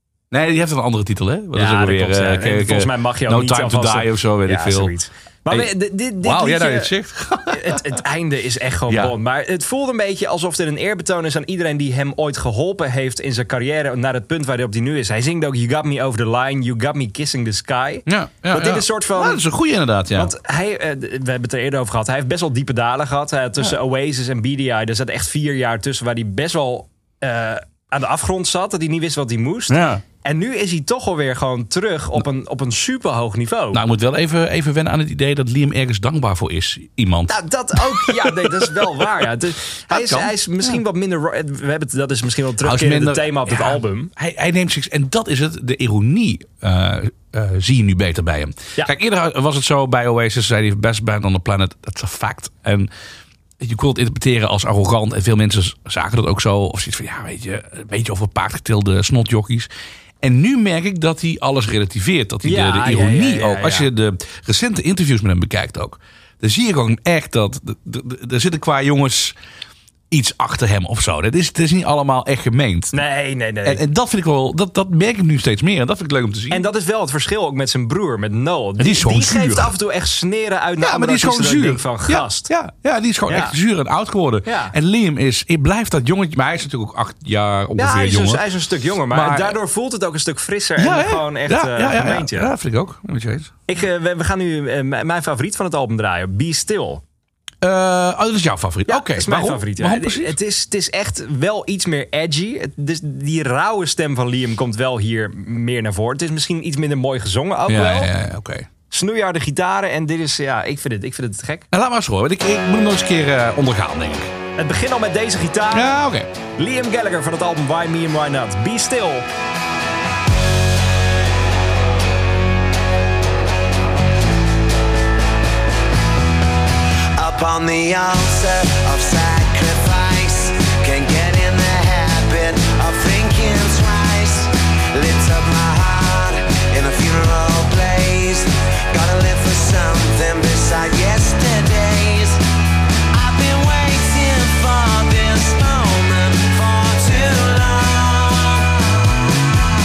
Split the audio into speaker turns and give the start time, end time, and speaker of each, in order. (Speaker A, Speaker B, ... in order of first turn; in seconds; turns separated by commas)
Speaker A: 0.3-4.9, Speaker B: 1.5-6.9, Speaker A: 5.5-8.0, Speaker B: 7.5-19.4, Speaker A: 8.9-9.1, Speaker A: 18.1-20.3, Speaker B: 20.1-33.8, Speaker A: 29.7-30.0, Speaker A: 33.7-39.2, Speaker B: 37.3-44.1, Speaker A: 39.9-40.8, Speaker A: 42.6-52.9, Speaker A: 53.6-59.7, Speaker A: 60.2-69.3, Speaker B: 62.4-63.9, Speaker A: 70.1-72.9, Speaker B: 72.9-73.8, Speaker A: 73.6-76.6, Speaker B: 76.5-82.5, Speaker A: 78.8-79.7, Speaker A: 80.8-88.4, Speaker B: 83.3-83.5, Speaker B: 84.4-84.7, Speaker B: 87.8-92.5, Speaker A: 89.1-89.6, Speaker A: 90.8-93.5, Speaker B: 93.7-97.0, Speaker A: 97.6-100.3, Speaker B: 98.9-108.1, Speaker A: 107.7-108.7, Speaker B: 108.9-111.7, Speaker A: 111.7-114.3, Speaker B: 114.6-116.0, Speaker A: 115.7-116.3, Speaker B: 116.6-119.2, Speaker C: 127.1-142.4, Speaker C: 143.1-149.2